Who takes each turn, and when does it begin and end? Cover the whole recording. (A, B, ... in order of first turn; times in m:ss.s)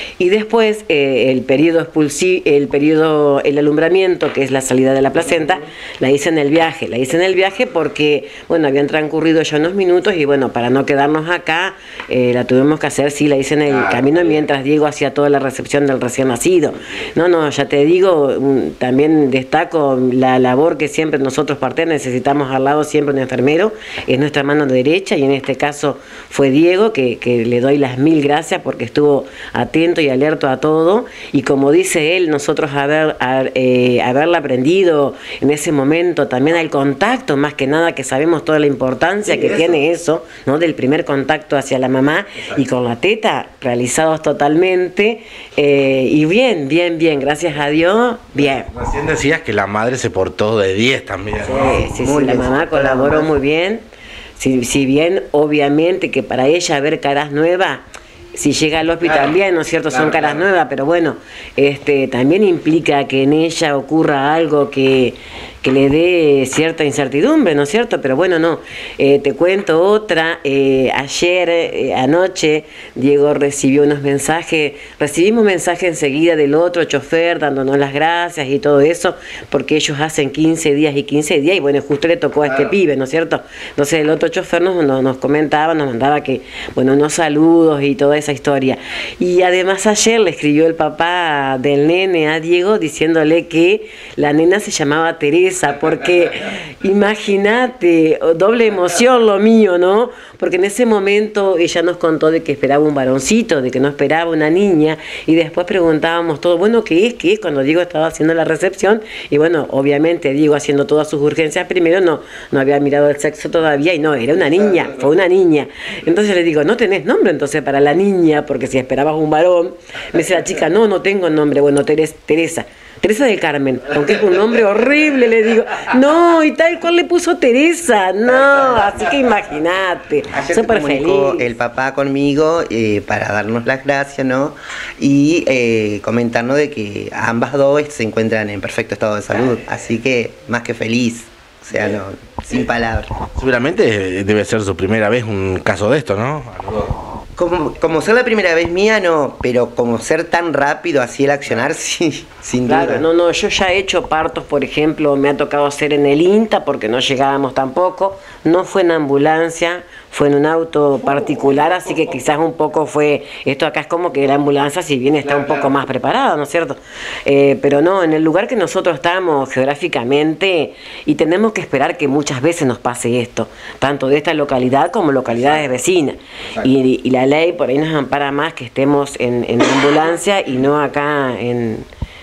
0:00.2-0:48.7 A
0:13.7-0:14.4 B
0:39.3-0:39.6 B
0:48.4-0:51.8 B
0:51.4-0:53.8 A
0:51.5-0:53.3 C
0:54.4-2:11.5 A
0:59.0-0:59.3 B
0:59.9-1:00.4 B
1:22.4-1:22.7 B
2:08.3-2:09.0 C
2:10.3-2:23.1 C
2:23.4-2:27.0 B
2:27.4-2:33.0 C
2:32.6-3:01.8 A
2:45.2-2:45.8 B
2:55.2-2:55.7 B